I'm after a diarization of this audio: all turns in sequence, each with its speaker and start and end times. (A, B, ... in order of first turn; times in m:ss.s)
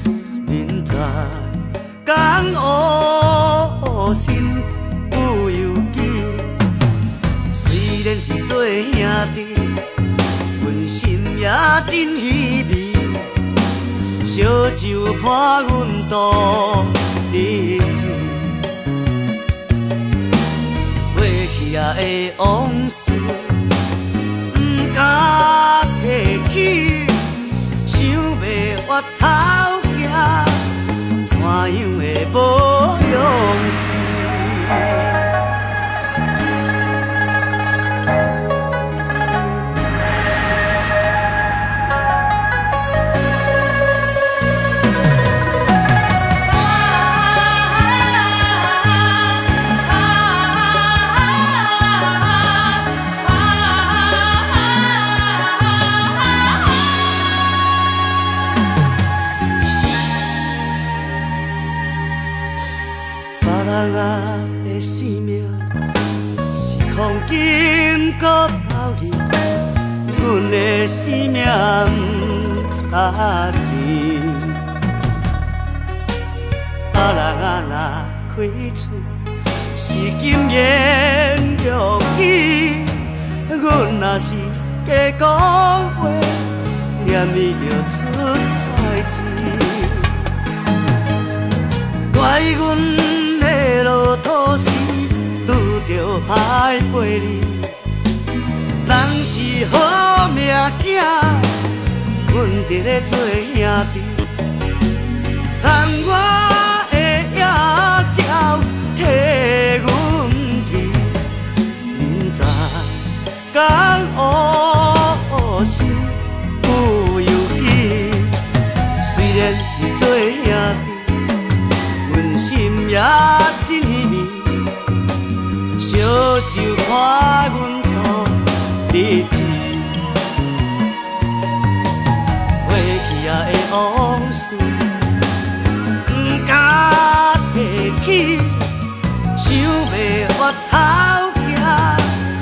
0:00.4-0:06.6 A
0:07.5-0:09.8 A
0:10.6-0:13.3 A
0:14.2-0:18.6 A
0:21.1-0:23.6 A
0:24.5-0:27.3 A
0:27.8-0:30.7 A
0:31.2-0:35.3 A
1:03.4-1:05.7 A
1:06.5-1:09.3 A
1:10.0-1:14.6 A
1:16.9-1:19.1 A
1:19.7-1:30.2 A
1:32.1-1:37.7 A
1:38.8-1:41.6 A
1:42.2-1:44.3 A
1:45.6-1:51.2 A
1:51.9-1:58.4 A
1:59.0-2:01.2 A
2:02.0-2:04.7 A
2:05.8-2:10.0 A
2:12.6-2:15.0 A
2:16.1-2:18.7 A
2:19.4-2:22.2 A